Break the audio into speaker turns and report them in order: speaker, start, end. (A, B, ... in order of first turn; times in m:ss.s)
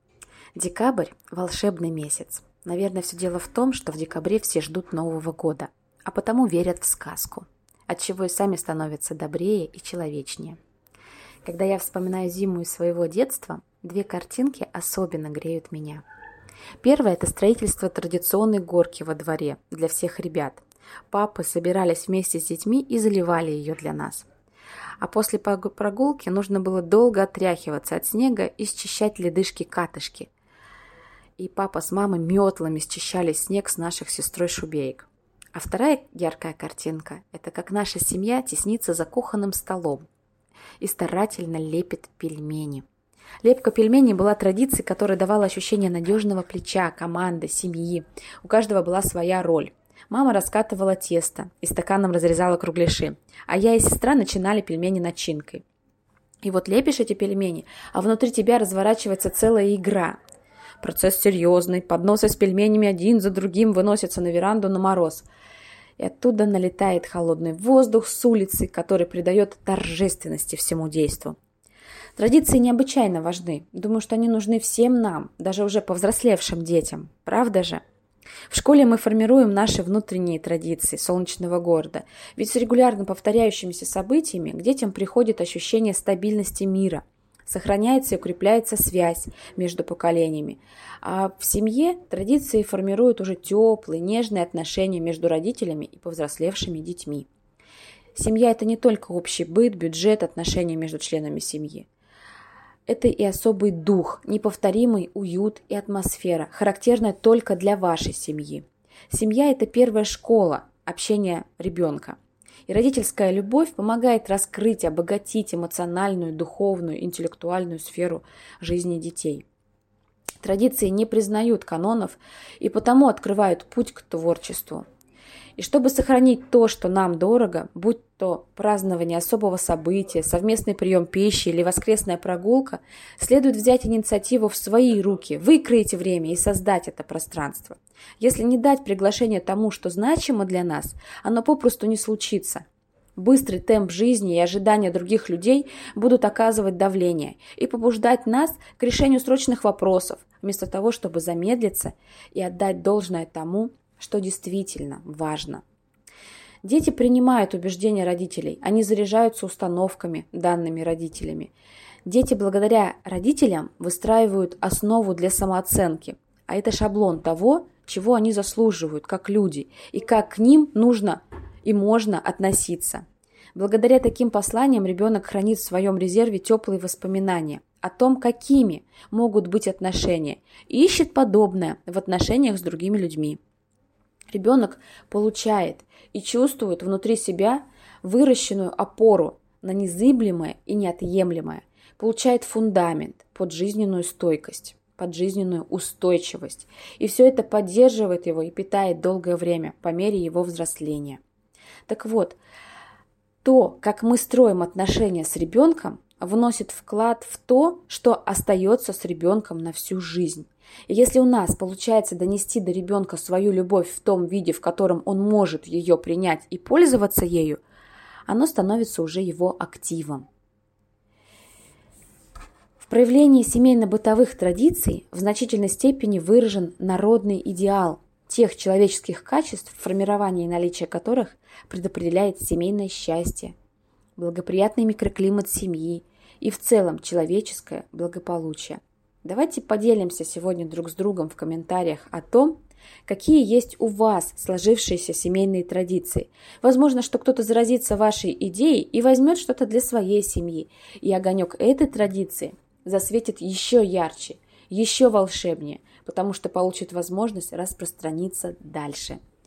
0:00.6-0:10.6 A
0:11.4-0:16.0 A
0:16.8-0:24.3 A
0:25.0-0:30.3 A
0:31.4-0:40.0 A
0:40.8-0:42.9 A
0:43.4-0:55.6 A
0:56.4-1:00.2 A
1:00.8-1:05.3 A
1:06.0-1:11.4 A
1:12.2-1:17.8 A
1:18.5-1:37.3 A
1:38.2-1:41.9 A
1:42.9-1:59.4 A
2:00.4-2:04.8 A
2:05.6-2:22.6 A
2:23.2-2:35.6 A
2:36.6-2:41.5 A
2:42.1-3:03.4 A
3:04.3-3:21.2 A
3:21.9-3:22.4 A
3:23.4-3:37.6 A
3:38.3-3:40.3 A
3:42.8-3:53.6 A
3:54.2-4:19.2 A